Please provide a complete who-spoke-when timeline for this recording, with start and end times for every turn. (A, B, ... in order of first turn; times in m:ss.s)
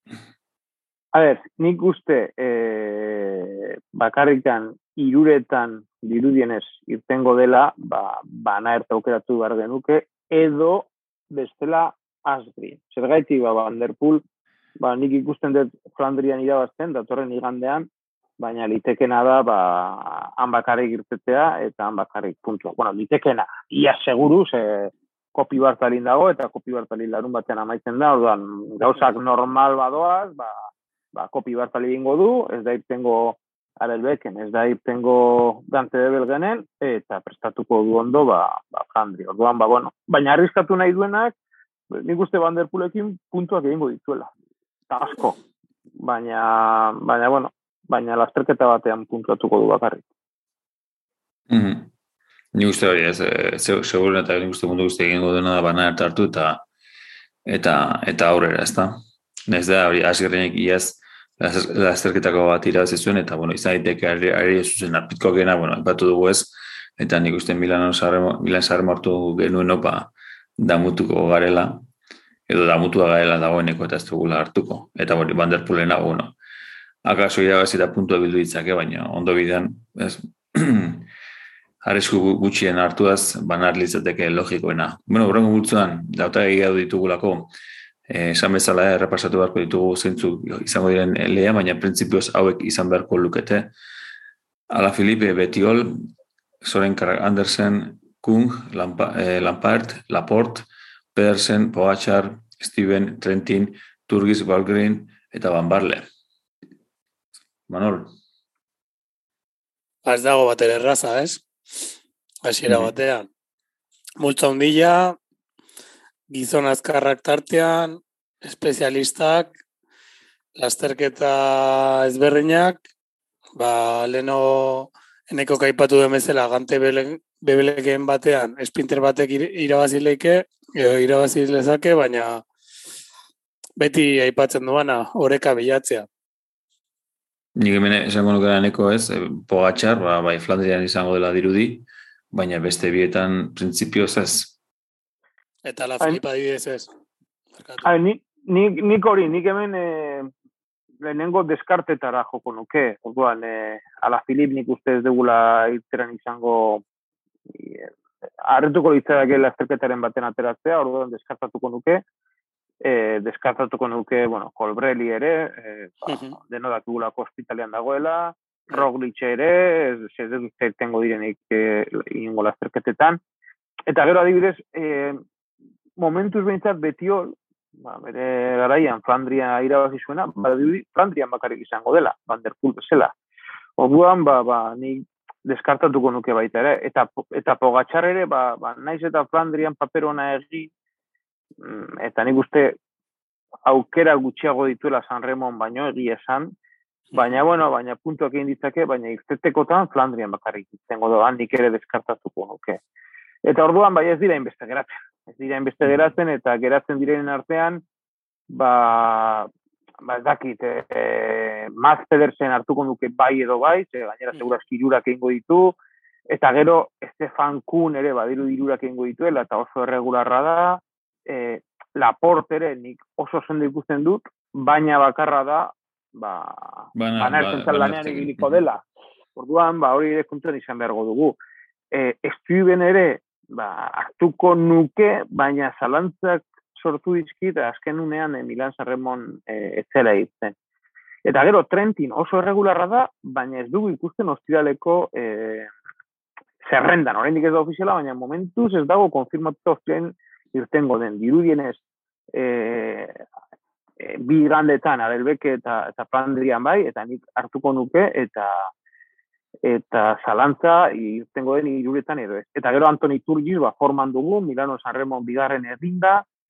0:01.1-0:14.2 A
0:14.8-0:17.9 A
0:18.4-0:30.6 A
0:31.1-0:41.3 A
0:41.9-0:44.3 A
0:44.9-0:45.4 A
0:46.0-0:50.0 A
0:51.5-0:51.9 B
0:52.5-0:56.6 B
0:57.5-0:58.9 B
0:59.5-1:11.8 B
1:12.5-1:16.3 B
1:17.0-1:21.1 B
1:21.8-1:27.5 B
1:28.1-1:33.7 B
1:34.7-1:36.0 B
1:36.6-1:46.0 B
1:47.7-1:48.1 B
1:50.0-1:51.9 C
1:52.4-1:53.3 C
1:52.7-1:52.9 B
1:54.2-1:55.2 C
1:56.3-1:59.5 C
2:00.6-2:02.8 C
2:03.6-2:12.4 C
2:13.8-2:16.0 C
2:17.6-2:24.5 B
2:25.6-2:26.9 C
2:27.6-2:27.9 C
2:27.8-2:30.3 A
2:31.0-2:36.8 A
2:37.5-2:37.9 A
2:38.5-2:42.0 A
2:42.8-2:53.2 A
2:46.1-2:46.4 C
2:53.9-2:55.2 A
2:56.0-3:03.1 A
3:03.8-3:10.7 A
3:11.6-3:12.8 A
3:13.6-3:16.5 A
3:17.1-3:22.8 A
3:23.4-3:27.8 A
3:28.5-3:29.5 A
3:30.0-3:35.8 A
3:36.3-3:48.8 A
3:47.0-3:48.6 B
3:49.4-3:51.4 A
3:51.9-4:00.6 A
4:01.2-4:05.7 A
4:06.6-4:11.8 A
4:12.3-4:13.2 A
4:14.0-4:18.7 A
4:19.6-4:26.2 A